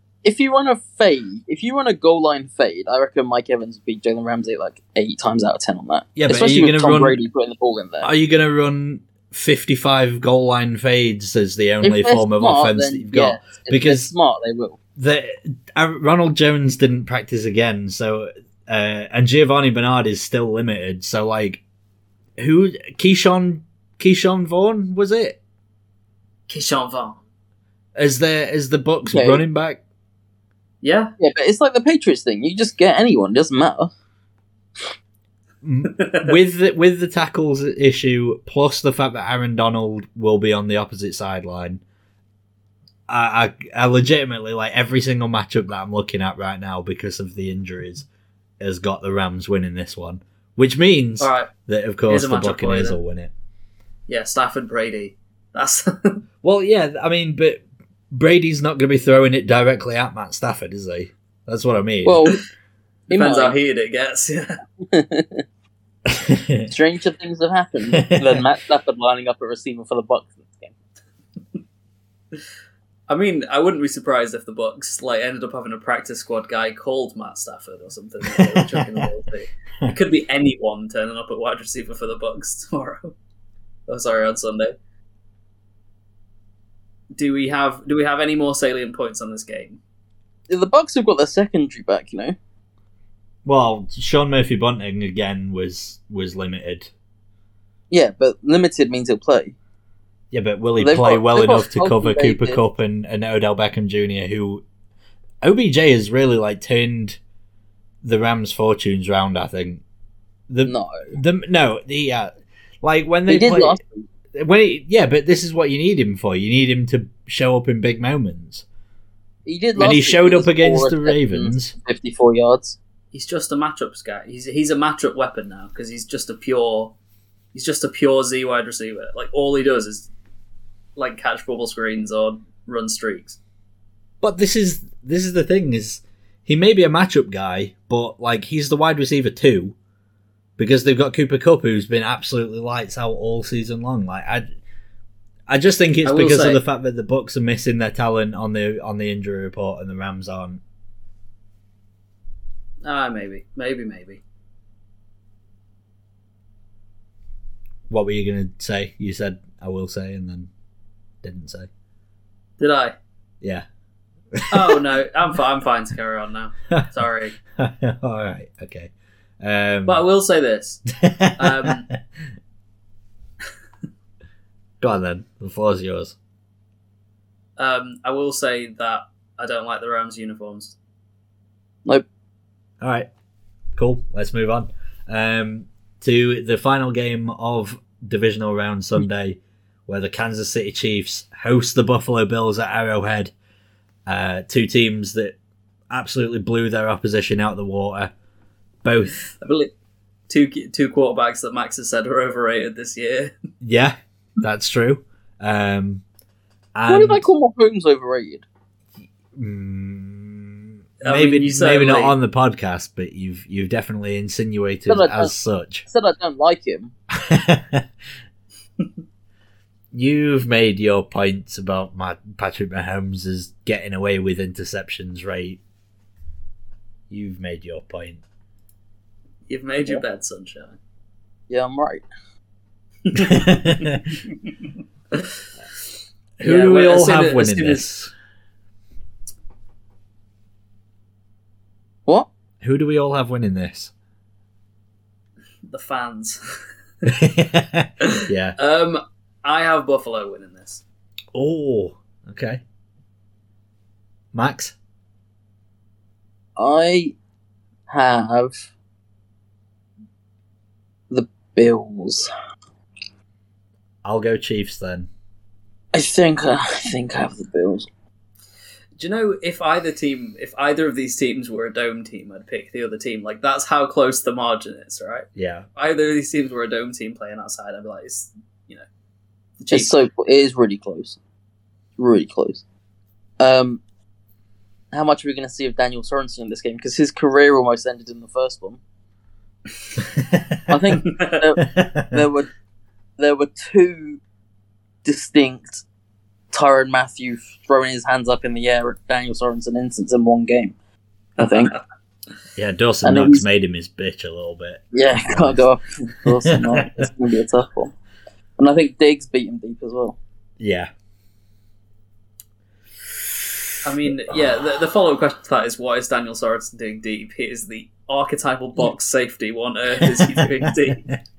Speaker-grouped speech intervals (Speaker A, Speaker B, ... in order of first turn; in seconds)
Speaker A: 0.2-8.1, 11.8-14.8, 29.1-29.4, 31.2-33.9, 62.0-62.4, 63.1-63.6, 64.8-65.4, 66.7-70.7, 90.5-92.3, 97.9-99.5, 100.8-102.6, 110.7-110.9, 113.3-114.1, 119.4-122.8, 206.9-208.4, 214.9-215.3, 215.9-216.9, 231.5-232.0, 256.6-257.1, 257.9-258.7, 261.1-262.3, 265.9-267.9, 279.7-281.2, 282.0-282.6, 283.4-283.8, 284.9-288.8, 290.7-292.5, 293.2-294.2, 295.0-295.9, 296.5-300.8, 301.4-301.8, 303.0-303.4, 304.9-307.9, 308.6-310.2
Speaker B: 6.1-7.2, 8.0-14.1, 14.9-21.6, 22.4-25.4, 27.9-29.8, 35.6-41.8, 43.1-48.0, 48.6-53.3, 56.4-62.4, 66.1-66.7, 67.9-68.4, 78.4-79.0, 93.4-96.9, 100.3-104.6, 105.4-107.2, 108.0-109.8, 110.5-112.3, 112.8-113.8, 114.3-118.7, 119.8-121.7, 134.2-139.8, 140.6-144.5, 145.5-150.6, 157.9-160.5, 161.2-161.7, 167.6-170.0, 171.0-171.9, 174.8-176.2, 182.8-183.1, 183.8-193.3, 194.1-195.3, 195.9-198.1, 198.8-199.3, 203.6-206.0, 206.8-207.3, 209.3-215.9, 217.1-217.8, 219.9-225.6, 227.1-228.2, 233.1-234.0, 236.4-238.1, 242.6-243.9, 247.1-248.6, 251.3-252.6, 254.3-254.8, 264.0-265.1, 275.4-275.7, 290.2-290.7, 291.6-292.2, 302.6-305.6, 306.5-307.1, 310.6-310.9, 320.0-321.1
Speaker C: 26.5-27.2, 30.8-31.1, 51.2-51.5, 52.1-53.0, 54.1-56.2, 63.1-64.6, 73.1-83.1, 83.9-84.7, 87.1-89.8, 123.1-126.9, 127.5-130.1, 130.9-133.4, 146.0-146.6, 152.8-154.2, 162.6-162.9, 164.5-167.4, 169.8-170.8, 171.4-171.9, 177.6-180.8, 199.3-199.7, 200.3-203.3, 211.0-212.1, 229.5-230.8, 233.0-233.5, 236.4-237.8, 245.7-246.4, 248.1-250.8, 269.0-278.9, 279.6-279.9, 291.0-291.4, 301.4-301.8, 313.8-321.1